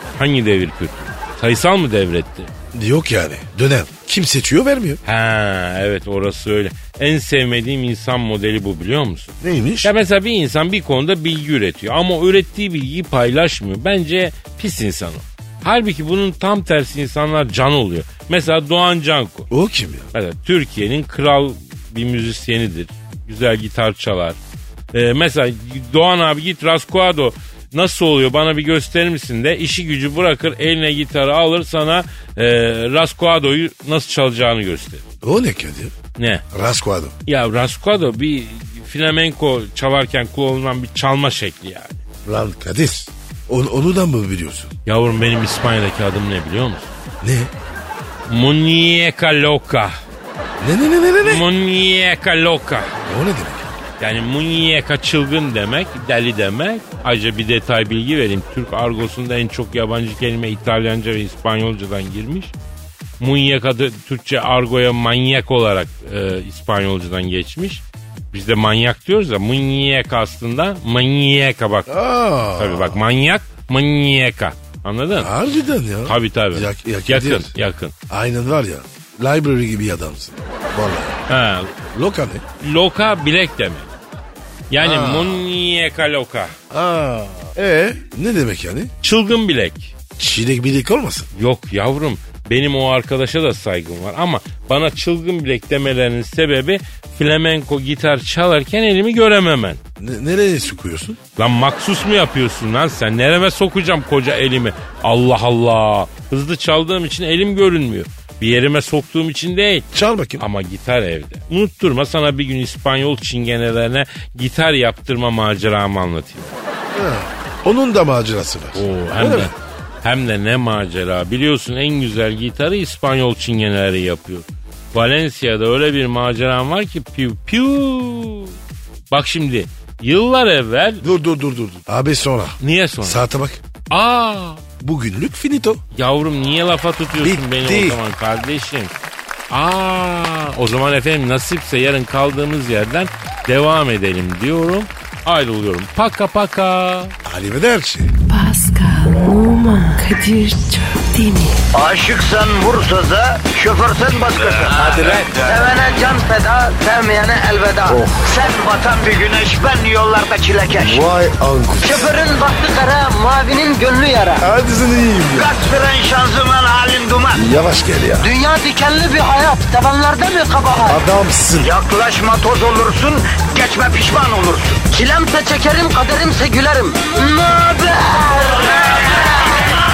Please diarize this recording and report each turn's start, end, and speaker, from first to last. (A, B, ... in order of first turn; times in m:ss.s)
0:00.2-0:02.5 A
0:02.7-0:05.0 B
0:05.0-0:19.5 A
0:09.4-0:09.9 B
0:19.5-0:20.1 B
0:20.1-0:24.4 A
0:24.9-0:35.0 A
0:35.2-0:35.9 B
0:36.2-0:36.4 A
0:36.5-0:37.2 B
0:37.3-0:42.0 A
0:42.2-0:44.7 B
0:44.9-0:46.9 A
0:47.2-0:47.5 B
0:48.3-0:50.0 A
0:50.6-0:51.4 B
0:51.2-0:53.0 A
0:53.1-0:53.7 B
0:54.0-1:02.5 A
1:03.2-1:11.9 A
1:11.9-1:13.0 B
1:12.6-1:15.3 A
1:15.2-1:17.5 B
1:16.1-1:17.9 A
1:18.1-1:21.2 B
1:21.3-1:21.7 A
1:21.9-1:22.4 B
1:22.6-1:23.9 A
1:24.7-1:26.6 A
1:24.8-1:25.5 B
1:26.7-1:28.9 B
1:29.0-1:29.9 A
1:30.2-1:31.3 B
1:31.3-1:39.8 A
1:40.0-1:41.2 B
1:41.4-1:49.9 A
1:49.9-1:50.4 B
1:50.4-1:56.6 A
1:56.9-1:59.5 B
1:58.7-2:08.6 A
2:09.1-2:11.0 A
2:11.0-2:13.6 B
2:12.6-2:13.2 A
2:13.9-2:14.6 A
2:14.8-2:15.8 B
2:15.9-2:18.9 A
2:17.2-2:18.0 B
2:19.5-2:27.2 A
2:27.2-2:28.1 B
2:28.3-2:31.7 C
2:31.7-2:41.0 D
2:34.7-2:35.3 B
2:37.9-2:38.3 B
2:40.8-2:42.1 B
2:41.8-2:44.5 D
2:44.4-2:45.5 B
2:45.4-2:47.4 D
2:47.3-2:48.3 B
2:48.2-2:51.0 D
2:50.9-2:51.7 B
2:51.6-2:59.6 D